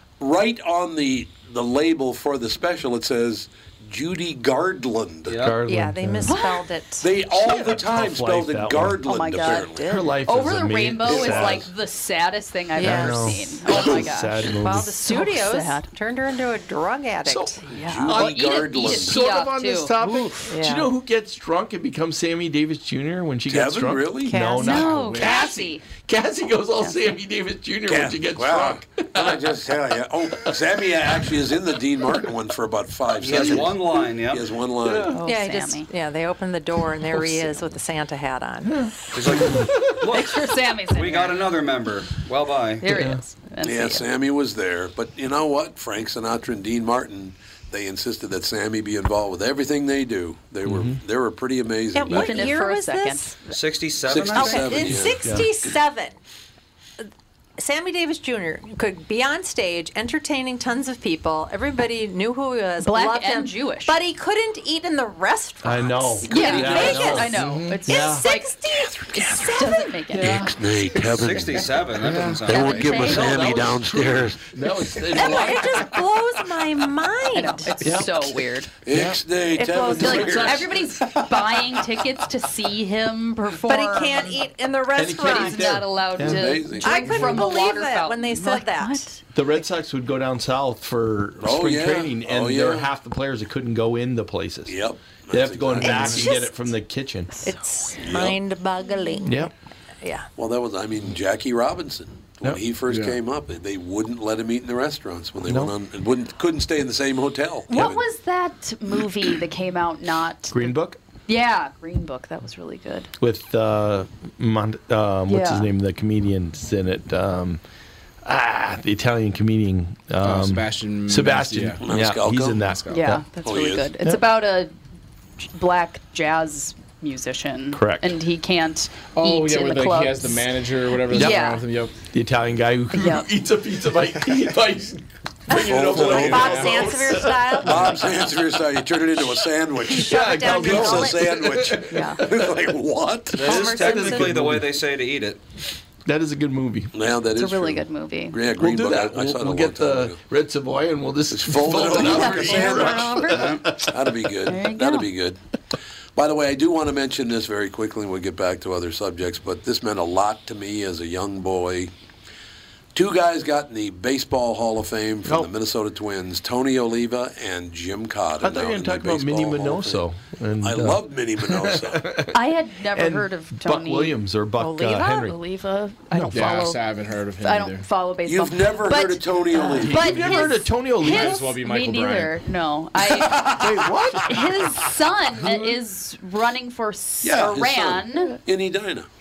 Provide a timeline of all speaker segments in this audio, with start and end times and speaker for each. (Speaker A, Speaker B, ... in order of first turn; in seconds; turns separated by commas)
Speaker A: 0.2-5.4, Speaker B: 5.3-5.6, Speaker C: 5.4-6.4, Speaker D: 5.7-7.2, Speaker E: 6.3-6.7, Speaker A: 7.0-10.1, Speaker C: 7.4-9.0, Speaker E: 9.0-15.9, Speaker C: 9.9-11.7, Speaker A: 11.1-11.7, Speaker D: 12.8-14.0, Speaker C: 12.8-15.0, Speaker D: 14.6-17.6, Speaker C: 17.2-29.4, Speaker E: 17.7-20.3, Speaker A: 17.7-19.2, Speaker D: 20.4-20.9, Speaker A: 23.5-24.4, Speaker D: 24.2-25.3, Speaker E: 24.6-25.9, Speaker E: 26.8-27.2, Speaker A: 27.9-35.2, Speaker B: 33.2-34.5, Speaker C: 34.8-35.2, Speaker E: 35.1-35.9, Speaker D: 35.2-38.9, Speaker B: 39.1-42.9, Speaker C: 39.4-40.0, Speaker E: 40.1-41.6, Speaker E: 42.8-44.1, Speaker C: 42.9-43.2, Speaker A: 43.6-52.5, Speaker C: 50.6-51.0, Speaker D: 51.9-53.5, Speaker E: 52.1-53.4, Speaker B: 53.5-55.0, Speaker A: 54.1-55.4, Speaker D: 54.3-56.2, Speaker C: 55.2-55.5, Speaker D: 57.6-69.9, Speaker E: 62.8-64.0, Speaker C: 65.6-68.3, Speaker E: 66.3-70.5, Speaker C: 70.1-71.0, Speaker A: 70.2-71.7, Speaker B: 71.0-73.5, Speaker C: 72.0-75.9, Speaker A: 72.4-75.9, Speaker E: 72.6-73.5, Speaker D: 75.0-77.8, Speaker E: 77.3-78.7, Speaker C: 77.8-78.2, Speaker A: 78.8-81.6, Speaker C: 78.9-79.2, Speaker D: 79.5-80.7, Speaker E: 80.0-84.4, Speaker D: 83.7-85.8, Speaker C: 84.9-86.6, Speaker E: 85.2-89.2, Speaker A: 86.2-87.4, Speaker D: 86.8-89.1, Speaker C: 89.3-94.8, Speaker A: 91.4-92.9, Speaker A: 94.7-96.3, Speaker C: 95.3-97.3, Speaker D: 95.8-96.6, Speaker D: 97.4-99.5, Speaker A: 98.0-98.4, Speaker C: 99.2-99.5, Speaker A: 100.4-108.0, Speaker F: 102.9-103.2, Speaker C: 105.5-105.7, Speaker E: 107.7-113.1, Speaker C: 110.5-111.0, Speaker C: 113.2-117.6, Speaker E: 115.3-115.7, Speaker C: 118.2-123.3, Speaker F: 120.2-121.8, Speaker A: 121.8-122.7, Speaker F: 122.6-123.1, Speaker E: 122.9-124.7, Speaker A: 123.4-123.9, Speaker E: 125.5-131.7, Speaker C: 127.7-128.1, Speaker F: 129.1-132.0, Speaker C: 131.1-131.4, Speaker C: 132.1-138.0, Speaker E: 132.9-133.3, Speaker D: 135.5-138.0, Speaker A: 135.6-137.0, Speaker F: 135.8-137.0, Speaker A: 137.6-143.7, Speaker D: 139.9-141.4, Speaker C: 140.0-142.5, Speaker E: 141.9-142.2, Speaker B: 143.4-145.4, Speaker D: 143.4-144.5, Speaker C: 143.5-144.7, Speaker C: 146.1-146.9, Speaker A: 146.9-150.2, Speaker E: 147.3-148.4, Speaker C: 148.6-154.0, Speaker A: 151.3-155.4, Speaker E: 152.0-153.3, Speaker D: 152.4-153.2, Speaker B: 153.3-153.8, Speaker E: 154.5-155.1, Speaker A: 156.2-161.9, Speaker A: 162.9-170.0, Speaker C: 168.4-172.4, Speaker A: 170.6-172.1, Speaker E: 172.3-176.8, Speaker C: 172.9-175.4, Speaker C: 176.1-176.7, Speaker F: 176.3-177.9, Speaker E: 177.4-183.6, Speaker A: 178.3-180.5, Speaker C: 179.6-181.6, Speaker F: 181.0-182.4, Speaker A: 183.4-183.8, Speaker C: 183.4-184.5, Speaker E: 184.2-188.4, Speaker A: 187.2-189.1